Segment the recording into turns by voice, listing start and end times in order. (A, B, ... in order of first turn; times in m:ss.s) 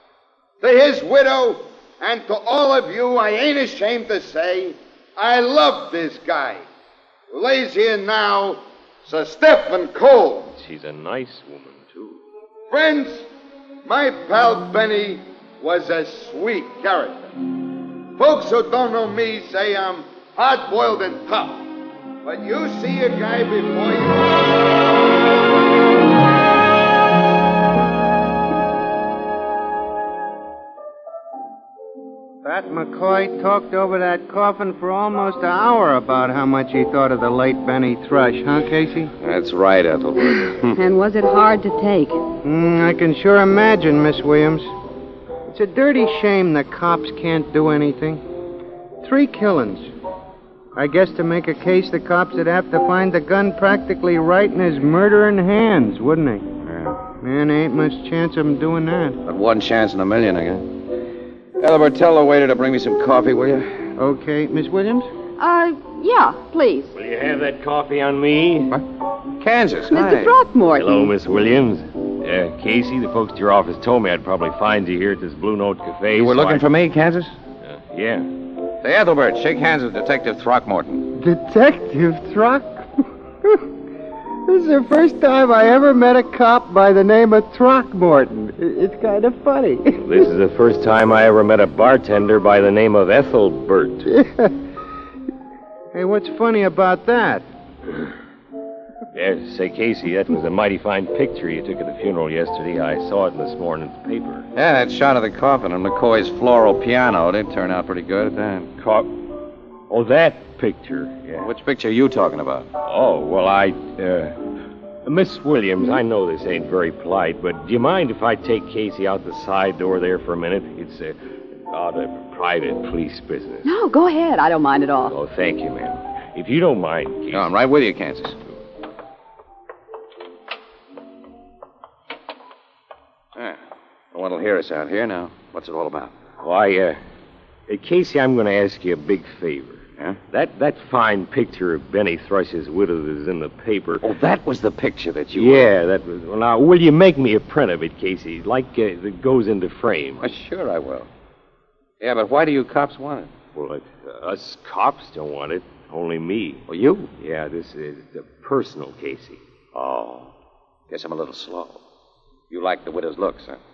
0:00.6-0:06.6 A
0:07.3-0:10.5 A
0:10.6-0:12.2 B
0:12.7-0:13.3 A
0:13.8-0:17.3 A
0:18.2-0:21.7 A
0:22.2-0:24.5 A
0:32.4-0:39.1 C
0:39.2-0:40.8 D
0:40.8-0:42.2 E
0:42.4-0:44.7 C
0:45.5-0:48.2 C
0:49.0-0:49.9 C
0:50.7-0:56.5 C
0:56.6-0:57.0 D
0:57.2-0:59.2 C
0:59.2-1:00.7 D
1:01.6-1:03.9 D
1:04.0-1:05.1 C
1:05.4-1:06.9 E
1:06.9-1:08.8 B
1:09.4-1:10.4 D
1:09.9-1:11.1 E
1:10.7-1:16.6 B
1:16.2-1:17.3 D
1:17.6-1:18.3 B
1:18.8-1:21.1 D
1:21.1-1:23.6 C
1:24.5-1:30.3 C
1:30.0-1:34.1 B
1:34.0-1:34.5 C
1:35.9-1:37.5 C
1:39.1-1:44.5 B
1:44.5-1:48.7 D
1:48.8-1:49.1 B
1:49.9-1:51.5 B
1:51.4-1:52.7 D
1:52.8-1:54.4 B
1:55.0-2:03.6 B
2:03.6-2:05.2 E
2:05.1-2:07.5 B
2:07.3-2:08.4 D
2:14.1-2:16.1 D
2:16.4-2:17.0 B
2:17.7-2:24.0 B
2:24.0-2:25.7 D
2:25.3-2:30.3 B
2:30.2-2:31.1 D
2:32.0-2:33.3 D
2:33.5-2:36.6 B
2:36.7-2:37.1 D
2:37.2-2:39.4 B
2:39.7-2:40.3 D
2:40.9-2:41.8 D
2:42.5-2:43.6 D